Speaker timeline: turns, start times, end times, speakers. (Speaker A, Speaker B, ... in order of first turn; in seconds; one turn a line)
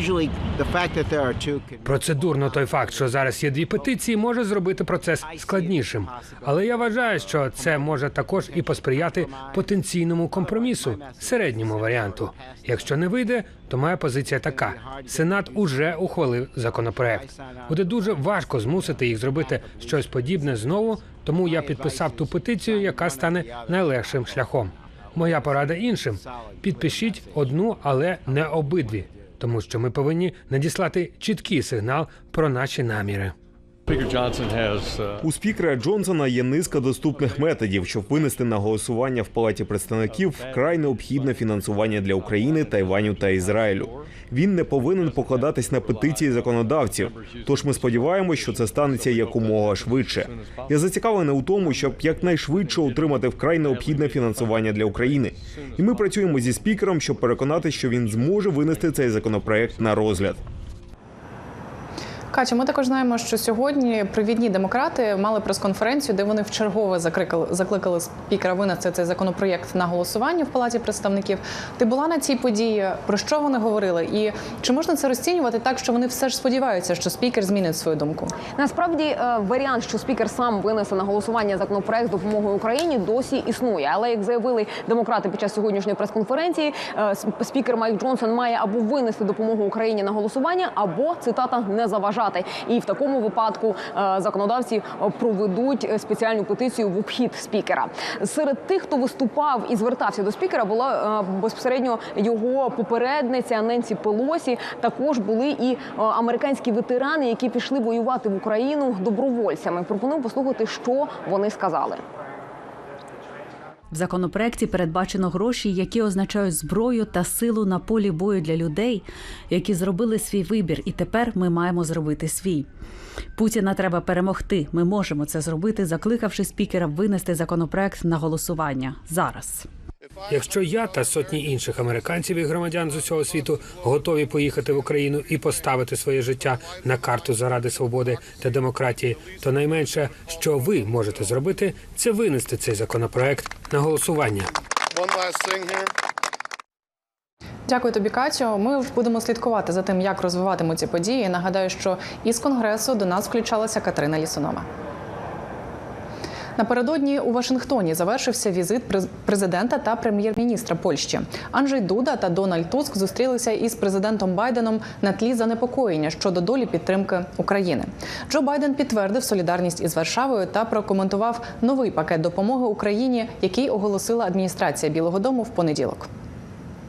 Speaker A: 1.8-33.3
Speaker B: 35.2-60.4
Speaker C: 62.3-78.4
Speaker D: 78.6-112.0
Speaker E: 113.9-122.7
Speaker E: 123.4-129.7
Speaker A: 130.3-144.5
Speaker C: 147.7-154.7
Speaker C: 156.6-176.1